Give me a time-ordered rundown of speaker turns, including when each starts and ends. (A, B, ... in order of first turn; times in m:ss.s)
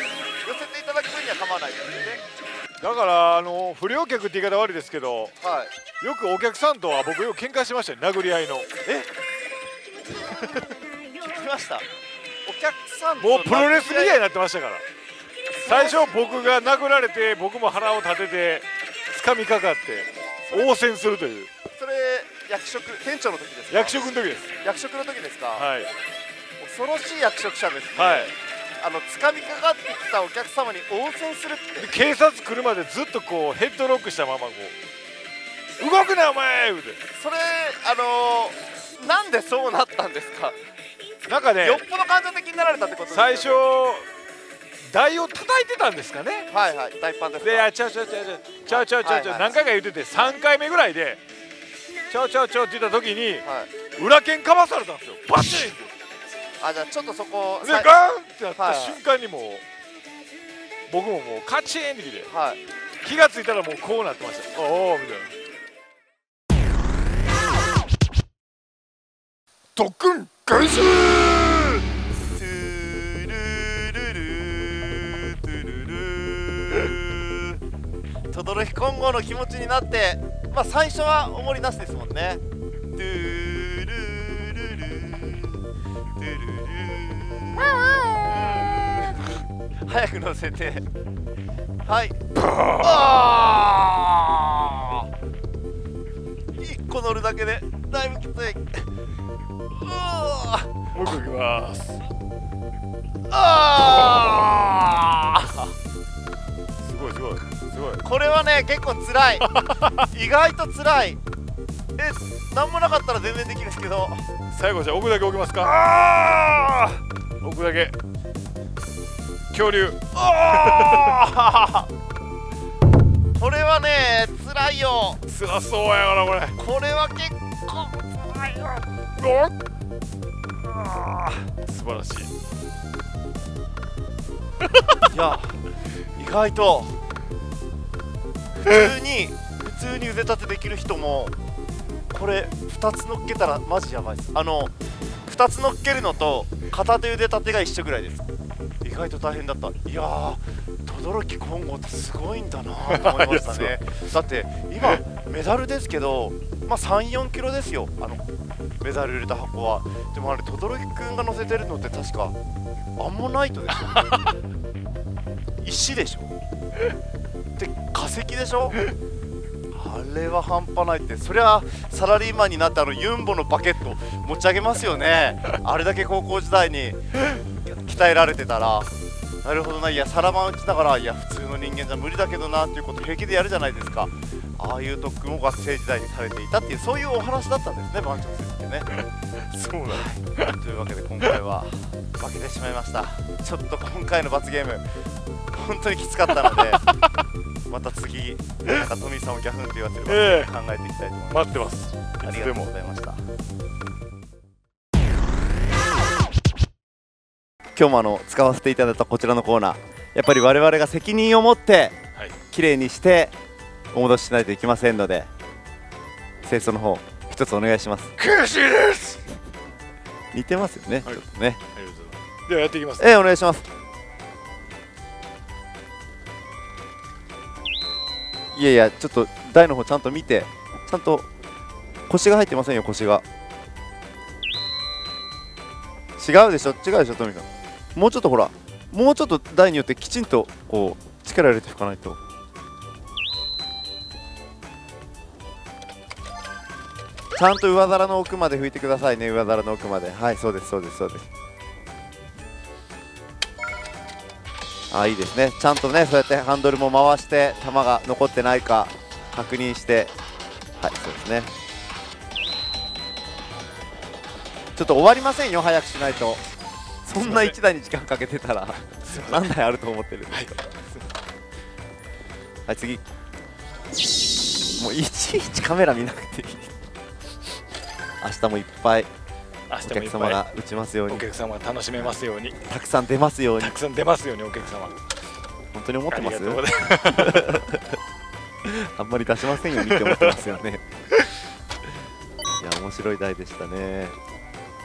0:00.4-0:02.2 A
0:02.8-0:05.3 B
0:05.4-0:05.7 A
0:06.0-0:09.0 B
0:10.2-0:11.0 B
0:11.1-0:11.8 A
0:12.4-0:14.2 A
0:13.2-0:14.8 B
0:15.5-0:16.2 A
0:15.6-0:21.5 B
0:20.5-0:20.7 A
0:21.8-0:24.0 A
0:23.7-0:24.5 B
0:24.6-0:25.7 A
0:25.6-0:25.9 B
0:26.6-0:31.9 A
0:28.0-0:28.3 B
0:31.8-0:34.7 B
0:35.8-0:37.0 B
0:37.2-0:40.6 A
0:41.3-0:41.8 B
0:41.6-0:43.6 A
0:43.1-0:44.1 B
0:44.9-0:46.5 B
0:46.5-0:47.7 A
0:47.4-0:51.2 B
0:48.6-0:49.6 A
0:52.1-0:53.4 B
0:53.4-0:53.7 A
0:54.0-0:55.9 B
0:56.6-0:57.9 A
0:57.6-0:59.6 B
0:58.6-0:59.0 A
1:00.9-1:02.3 B
1:02.3-1:02.6 A
1:03.0-1:05.3 B
1:09.8-1:11.8 B
1:12.2-1:17.6 A
1:18.3-1:22.4 A
1:23.0-1:25.6 A
1:26.2-1:30.9 A
1:28.0-1:28.6 B
1:31.9-1:32.2 A
1:32.4-1:33.3 B
1:32.8-1:35.1 A
1:36.6-1:38.9 A
1:39.8-1:40.7 A
1:40.9-1:42.0 B
1:43.3-1:45.7 A
1:43.8-1:44.6 B
1:46.8-1:48.0 B
1:48.0-1:49.5 A
1:49.5-1:50.0 B
1:50.0-1:51.2 A
1:52.0-1:54.2 A
1:54.5-1:58.0 B
1:59.5-2:01.6 B
2:00.4-2:01.8 A
2:03.4-2:05.2 A
2:05.3-2:06.6 B
2:06.6-2:08.8 A
2:09.2-2:09.5 B
2:10.9-2:12.3 B
2:15.1-2:15.6 A
2:16.2-2:17.0 A
2:18.6-2:21.3 A
2:22.1-2:24.7 A
2:25.3-2:28.2 A
2:28.8-2:38.2 A
2:32.9-2:33.7 B
2:38.8-2:42.3 A
2:43.0-2:44.3 A
2:45.6-2:46.3 A
2:47.6-2:48.8 A
2:49.7-2:58.9 A
2:59.4-3:08.9 A
3:09.6-3:14.8 A
3:09.7-3:10.5 B
3:15.5-3:16.8 A
3:16.4-3:17.0 B
3:17.7-3:21.7 A
3:20.1-3:20.5 B
3:21.3-3:22.7 B
3:22.2-3:23.2 A
3:27.8-3:32.0 A
3:32.5-3:33.3 A
3:33.9-3:35.3 A
3:36.4-3:38.1 A
3:38.2-3:39.2 B
3:40.3-3:41.6 A
3:41.7-3:43.1 B
3:43.0-3:43.6 A
3:48.5-3:51.3 A
3:52.1-3:53.2 A
3:56.2-4:02.2 A
4:07.4-4:11.3 A
4:14.9-4:20.1 A
4:20.8-4:21.5 A
4:24.8-4:26.4 A
4:27.0-4:30.6 A
4:27.2-4:27.5 B
4:29.0-4:29.5 B
4:30.3-4:31.0 B
4:32.7-4:33.0 A
4:34.8-4:36.7 A
4:38.2-4:39.1 A
4:39.7-4:40.4 B
4:39.8-4:41.2 A
4:41.1-4:42.6 B
4:42.7-4:43.7 A
4:43.6-4:45.0 B
4:45.7-4:47.9 A
4:46.1-4:47.6 B
4:48.6-4:50.8 A
4:49.7-4:50.4 B
4:52.6-4:54.1 A